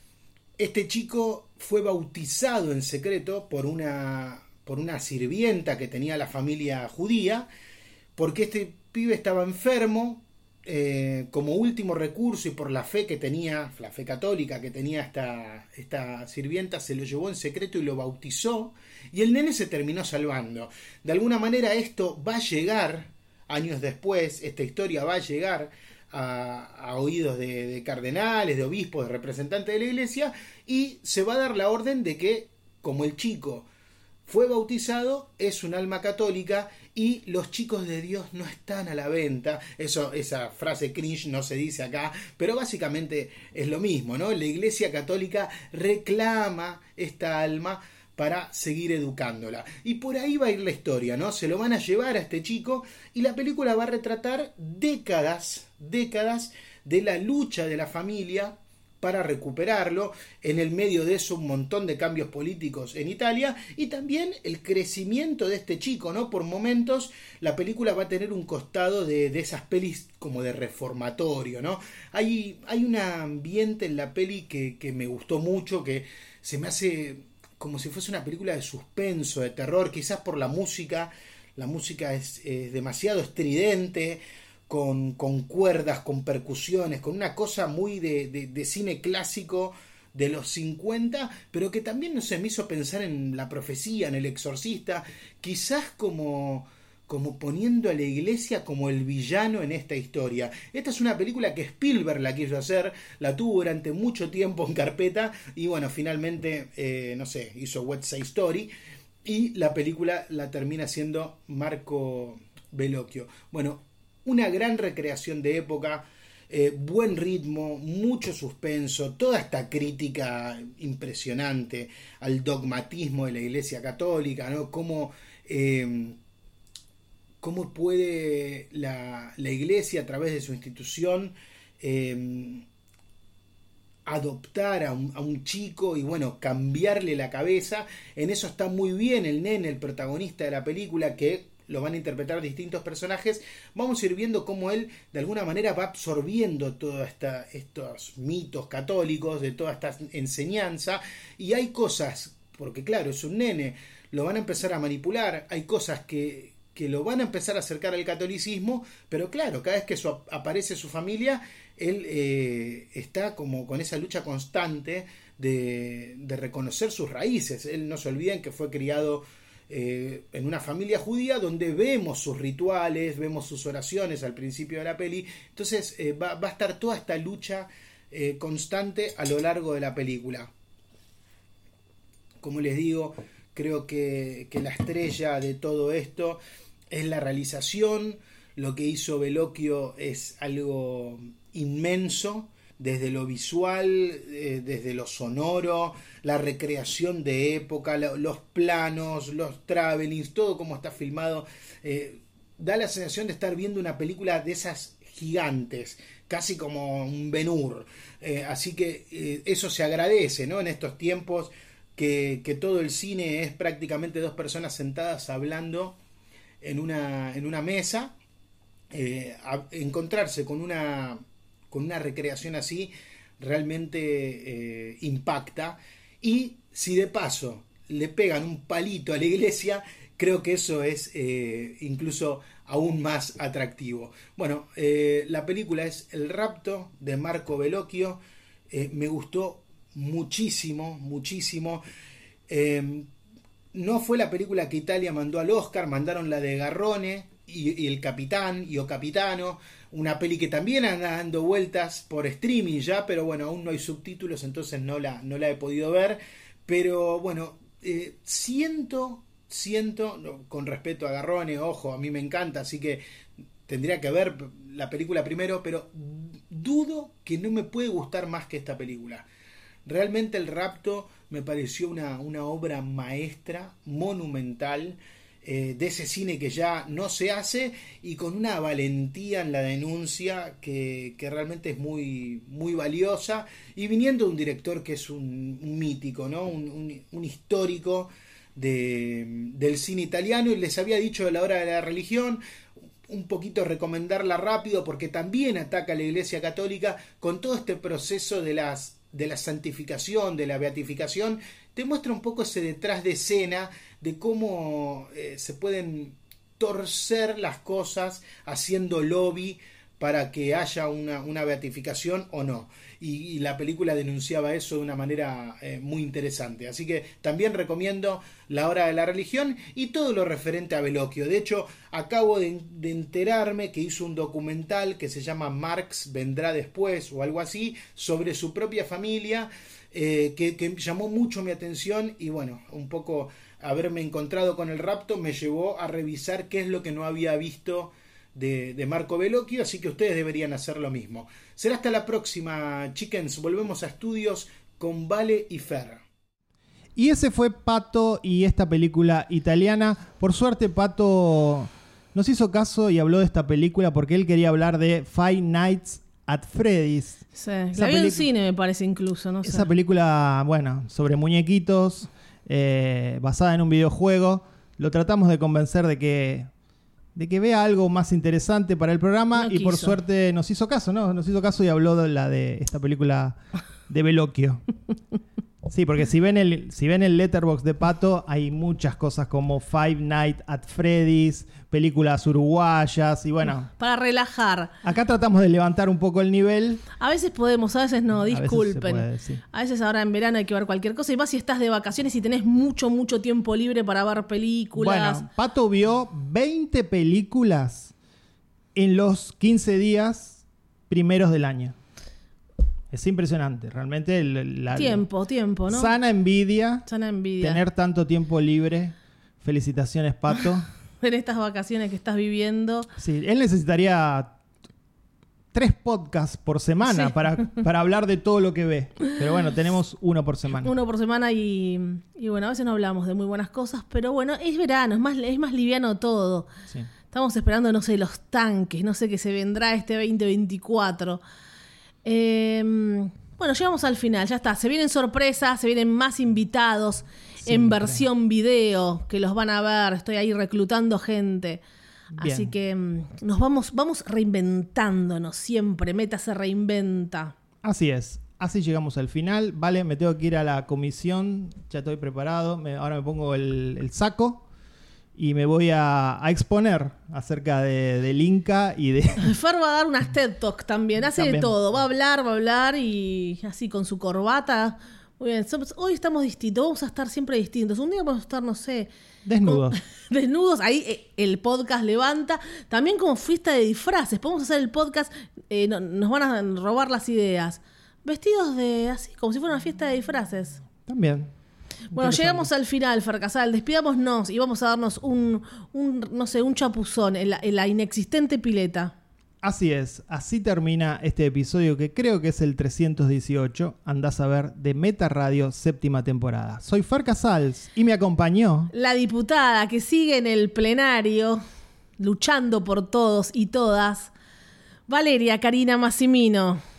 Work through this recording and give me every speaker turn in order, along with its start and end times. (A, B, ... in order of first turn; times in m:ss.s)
0:00.6-0:07.5 A
0:08.2-0:33.7 A
0:34.3-1:48.7 A
1:49.2-2:06.2 A
2:07.4-2:12.6 A
2:14.0-3:00.5 A
3:02.4-3:36.0 A
3:36.6-3:38.1 A
3:38.9-4:01.8 A
4:02.5-4:03.1 A
4:03.7-4:23.0 A
4:23.7-4:29.3 A
4:29.8-4:52.4 A
4:53.1-5:46.0 A
5:47.0-5:58.2 B
5:57.3-5:59.7 C
5:59.4-6:06.5 B
6:07.2-6:14.6 B
6:09.4-6:10.0 C
6:15.7-6:23.7 B
6:23.7-6:24.7 C
6:24.8-6:26.8 B
6:27.0-6:35.2 C
6:28.3-6:29.4 B
6:34.8-6:37.9 B
6:38.7-6:41.7 B
6:42.9-6:45.0 B
6:44.7-6:45.9 C
6:45.7-6:46.9 B
6:46.8-6:47.6 C
6:47.4-6:50.7 B
6:51.0-6:52.9 C
6:53.0-6:54.4 B
6:55.5-7:00.7 B
6:56.9-6:57.1 C
7:00.6-7:06.5 C
7:07.1-7:11.2 C
7:12.0-7:21.6 C
7:17.4-7:18.0 B
7:22.2-7:22.5 B
7:22.2-7:27.3 C
7:27.6-7:34.4 B
7:35.2-7:39.3 B
7:39.2-7:48.9 C
7:41.1-7:41.5 B
7:49.2-7:49.8 B
7:49.4-8:00.6 C
8:00.8-8:01.3 B
8:01.9-8:02.5 B
8:01.9-8:08.9 C
8:09.4-8:18.7 B
8:18.7-8:21.4 C
8:22.0-8:24.1 C
8:24.9-8:26.6 C